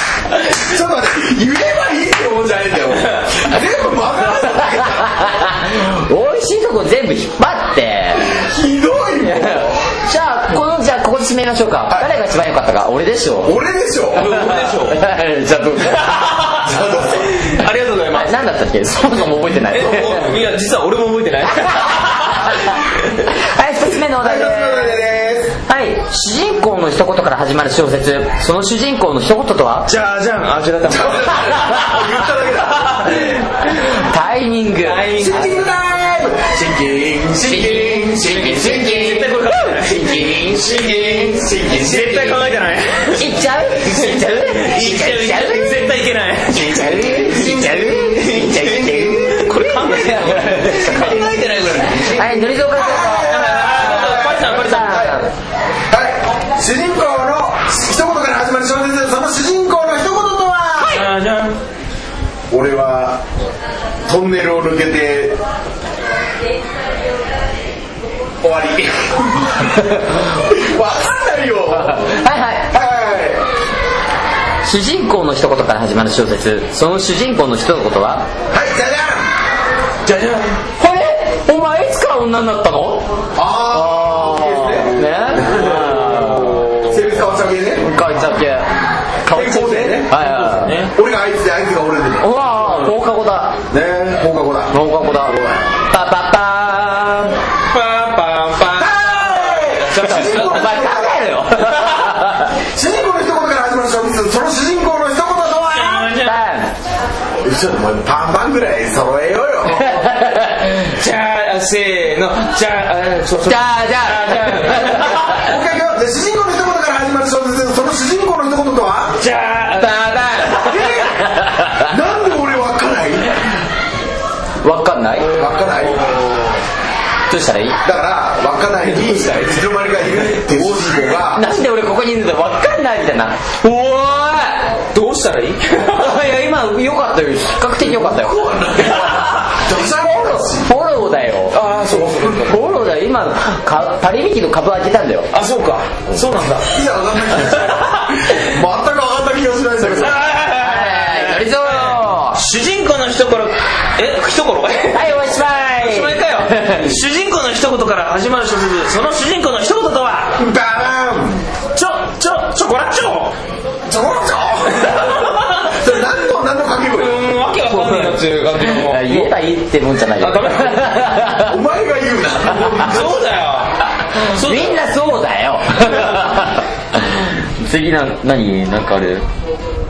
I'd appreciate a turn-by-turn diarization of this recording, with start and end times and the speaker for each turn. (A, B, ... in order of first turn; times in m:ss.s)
0:00.4-0:05.4 A
0:04.4-0:08.5 B
0:08.2-0:09.9 A
0:09.2-0:13.6 B
0:13.4-0:14.3 A
0:14.2-0:15.0 C
0:14.2-0:16.5 B
0:16.0-0:18.4 C
0:16.6-0:17.4 A
0:18.1-0:20.4 B
0:19.7-0:23.2 C
0:21.6-0:25.0 B
0:24.2-0:25.6 A
0:25.7-0:29.9 B
0:29.9-0:31.8 C
0:30.8-0:33.3 A
0:32.6-0:33.4 C
0:33.6-0:35.2 B
0:34.8-0:35.6 C
0:35.1-0:39.0 A
0:37.4-0:40.6 B
0:38.2-0:47.3 C
0:40.5-0:42.6 A
0:43.2-0:45.9 B
0:46.5-0:51.3 B
0:46.9-0:55.2 A
0:48.2-0:52.2 C
0:52.1-0:55.3 B
0:53.2-0:55.2 C
0:55.9-1:01.1 A
1:00.8-1:01.6 C
1:02.5-1:03.2 A
1:04.1-1:05.4 A
1:08.4-1:12.2 A
1:11.8-1:12.7 B
1:12.7-1:13.4 A
1:14.6-1:18.3 B
1:18.5-1:19.3 A
1:20.0-1:20.6 C
1:20.8-1:23.1 B
1:23.4-1:26.1 A
1:23.7-1:26.8 B
1:25.4-1:27.0 C
1:26.8-1:27.9 A
1:27.8-1:28.7 B
1:29.2-1:30.8 B
1:29.3-1:30.2 A
1:30.1-1:30.9 C
1:30.9-1:32.3 A
1:32.2-1:33.6 B
1:33.7-1:35.6 A
1:34.7-1:37.4 B
1:37.7-1:40.8 C
1:38.7-1:41.3 A
1:40.1-1:42.6 B
1:41.7-1:42.1 C
1:42.6-1:46.1 A
1:45.7-1:46.4 C
1:46.2-1:46.7 B
1:47.4-1:50.1 A
1:49.7-1:50.9 B
1:50.8-1:55.4 C
1:53.5-1:55.3 B
1:55.0-1:59.2 A
1:59.2-2:00.5 C
1:59.8-2:01.9 B
2:00.6-2:03.5 A
2:04.6-2:05.3 B
2:05.2-2:06.6 C
2:05.3-2:06.1 A
2:07.3-2:07.8 B
2:07.8-2:11.4 A
2:10.5-2:11.0 C
2:11.3-2:14.7 B
2:14.9-2:16.1 C
2:15.9-2:21.6 B
2:17.8-2:20.7 A
2:18.9-2:19.3 C
2:21.5-2:22.6 C
2:22.4-2:25.3 B
2:25.3-2:26.7 C
2:26.7-2:30.2 A
2:29.8-2:40.4 C
2:30.5-2:32.4 B
2:34.9-2:36.9 B
2:40.4-2:41.5 A
2:41.8-2:43.3 C
2:43.9-2:47.3 A
2:44.8-2:45.7 C
2:46.9-2:49.4 C
2:47.7-2:51.6 B
2:50.2-2:51.2 C
2:51.4-2:53.3 A
2:52.8-2:54.8 C
2:54.2-2:59.2 B